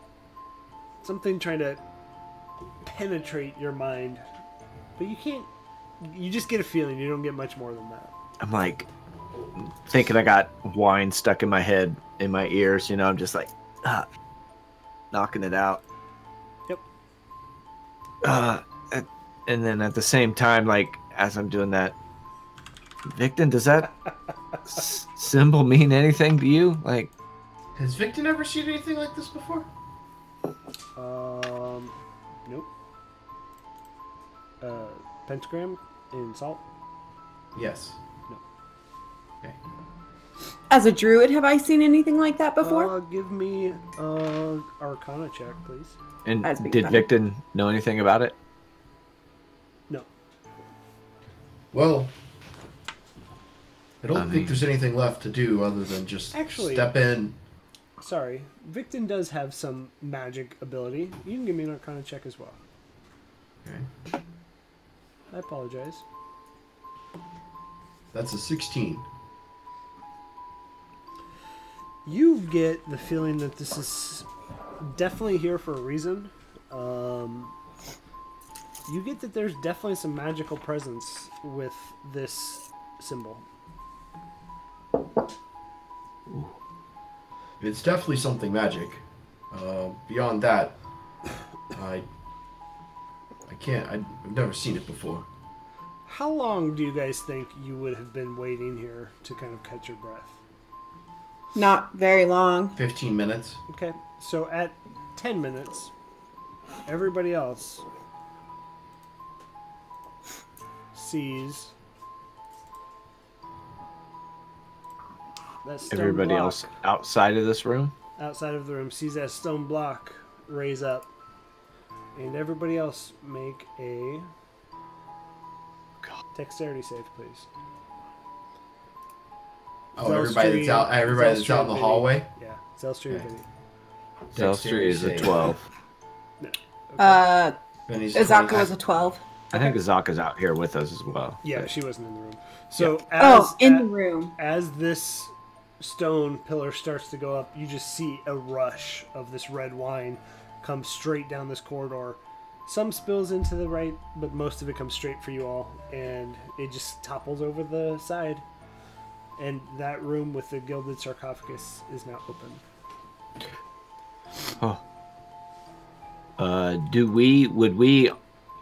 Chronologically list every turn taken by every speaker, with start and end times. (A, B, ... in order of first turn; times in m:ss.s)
0:01.0-0:01.8 A
0:02.8-0:04.2 A
0:05.0-0:05.5 A
0:06.0-0:08.1 A
0:08.4-0:08.9 B
0:09.6-0:14.0 B
0:15.1-0:15.8 B
0:18.2-0:22.0 B
0:23.0-0:23.9 B
0:24.6-0:27.1 B
0:27.7-0:29.7 C
0:31.0-0:31.9 A
0:34.6-0:36.6 A
0:37.5-0:38.0 C
0:40.7-0:42.9 D
0:42.6-0:46.0 A
0:46.2-0:48.4 B
0:46.4-0:47.1 D
0:51.7-0:52.1 C
0:54.0-0:57.4 C
0:54.1-0:54.6 B
0:56.3-0:56.9 A
0:58.0-1:02.6 A
1:03.6-1:03.9 C
1:05.3-1:06.0 A
1:08.1-1:09.0 C
1:12.0-1:14.3 A
1:14.8-1:17.6 A
1:18.9-1:23.4 A
1:26.3-1:26.5 B
1:27.6-1:30.8 C
1:31.7-1:32.0 C
1:33.5-1:35.3 C
1:36.1-1:40.4 A
1:41.5-1:42.8 D
1:42.8-1:43.6 C
1:43.7-1:45.9 A
1:46.8-1:47.8 A
1:50.9-1:51.7 A
1:55.6-1:56.7 A
1:55.9-1:57.9 B
1:58.2-2:01.1 A
2:02.1-2:04.3 A
2:06.3-2:07.5 A
2:10.0-2:12.3 C
2:10.0-2:13.5 A
2:14.3-2:15.5 C
2:14.3-2:15.6 B
2:16.4-2:17.2 A
2:17.0-2:17.6 D
2:17.9-2:18.7 C
2:18.1-2:19.2 D
2:19.5-2:21.7 B
2:21.4-2:38.4 A
2:23.2-2:24.3 D
2:39.4-2:42.6 A
2:46.4-2:48.1 B